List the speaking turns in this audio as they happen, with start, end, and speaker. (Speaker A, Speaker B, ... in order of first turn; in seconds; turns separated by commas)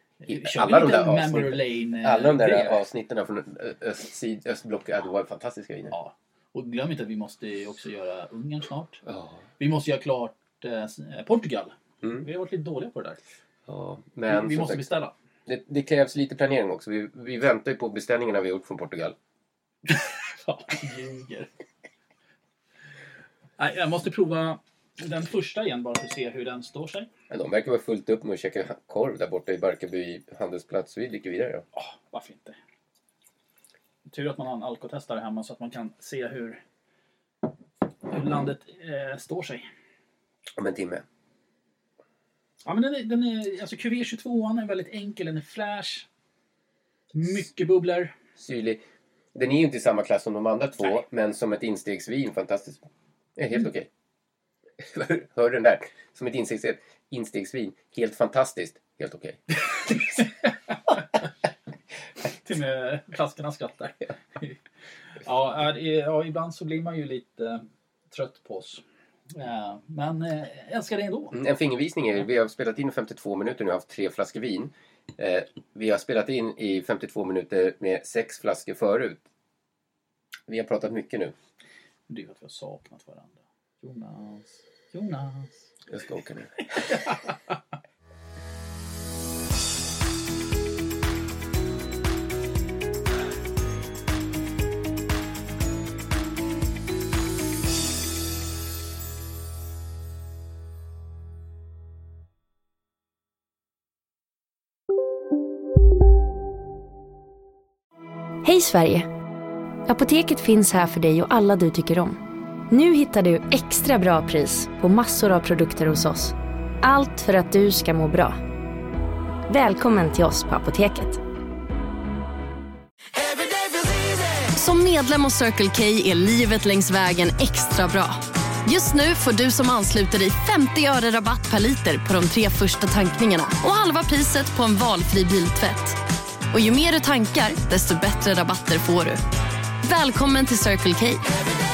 Speaker A: 0.2-2.8, Speaker B: 0.3-5.9, Speaker A: 5.9-9.0, Speaker B: 9.1-9.4, Speaker A: 9.6-13.2, Speaker B: 13.7-14.8, Speaker A: 14.3-15.1, Speaker B: 15.5-19.2, Speaker A: 19.9-21.5, Speaker A: 23.6-27.1, Speaker B: 27.3-31.7, Speaker A: 31.7-32.6, Speaker A: 34.1-36.6, Speaker A: 38.1-39.6, Speaker B: 40.6-41.0, Speaker A: 42.6-46.1, Speaker A: 47.1-48.1, Speaker B: 48.4-48.8, Speaker B: 49.4-53.9, Speaker B: 54.8-59.4, Speaker A: 60.2-60.5, Speaker A: 62.4-64.6, Speaker A: 65.2-71.4, Speaker B: 71.3-79.2, Speaker B: 80.5-81.3, Speaker A: 82.1-85.7, Speaker B: 85.9-87.0, Speaker A: 86.9-87.3, Speaker C: 108.4-109.1, Speaker C: 109.9-112.2, Speaker C: 112.7-118.4, Speaker C: 119.5-121.2, Speaker D: 124.5-136.0, Speaker D: 136.5-139.2, Speaker D: 139.8-141.3